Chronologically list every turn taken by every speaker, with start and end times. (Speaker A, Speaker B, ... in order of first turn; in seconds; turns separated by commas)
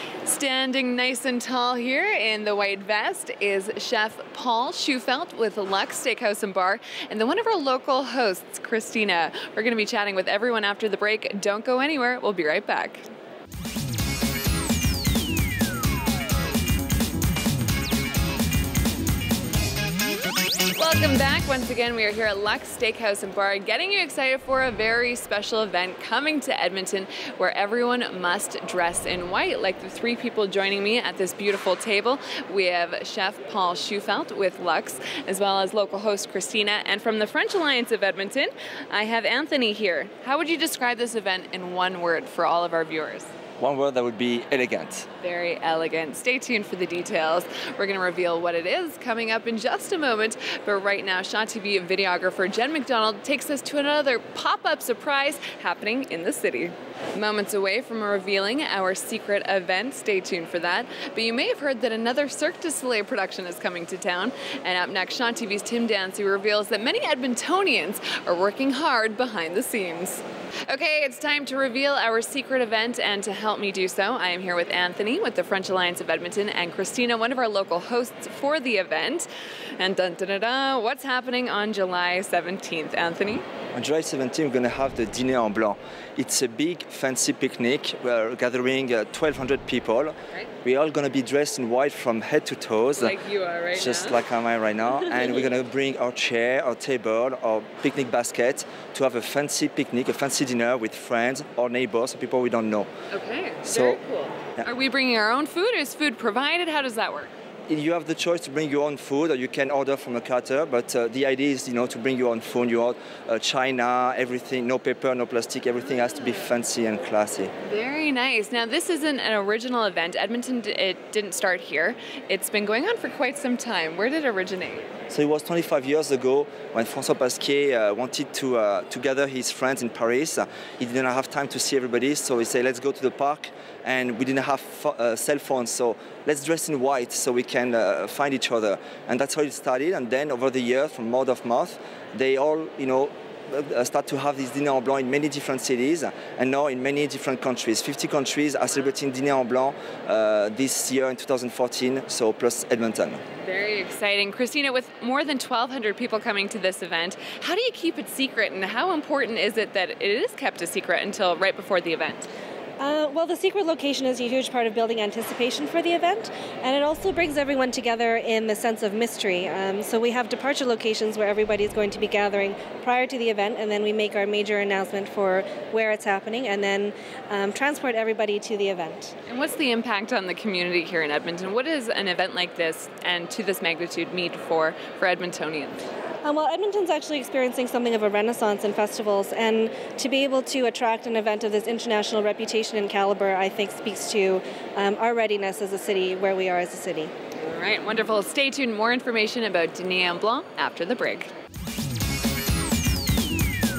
Speaker A: 0.2-13.0, Speaker A: 20.7-43.3, Speaker B: 43.6-45.0, Speaker A: 45.2-79.3, Speaker A: 79.8-83.4, Speaker B: 83.7-93.2, Speaker A: 93.0-94.2, Speaker B: 93.7-102.9, Speaker A: 103.1-107.3, Speaker B: 103.7-104.0, Speaker B: 107.7-117.5, Speaker A: 117.7-124.9, Speaker B: 125.1-153.2, Speaker A: 153.4-162.3, Speaker C: 162.8-179.1, Speaker A: 179.3-185.8, Speaker C: 186.2-197.1, Speaker A: 197.4-201.3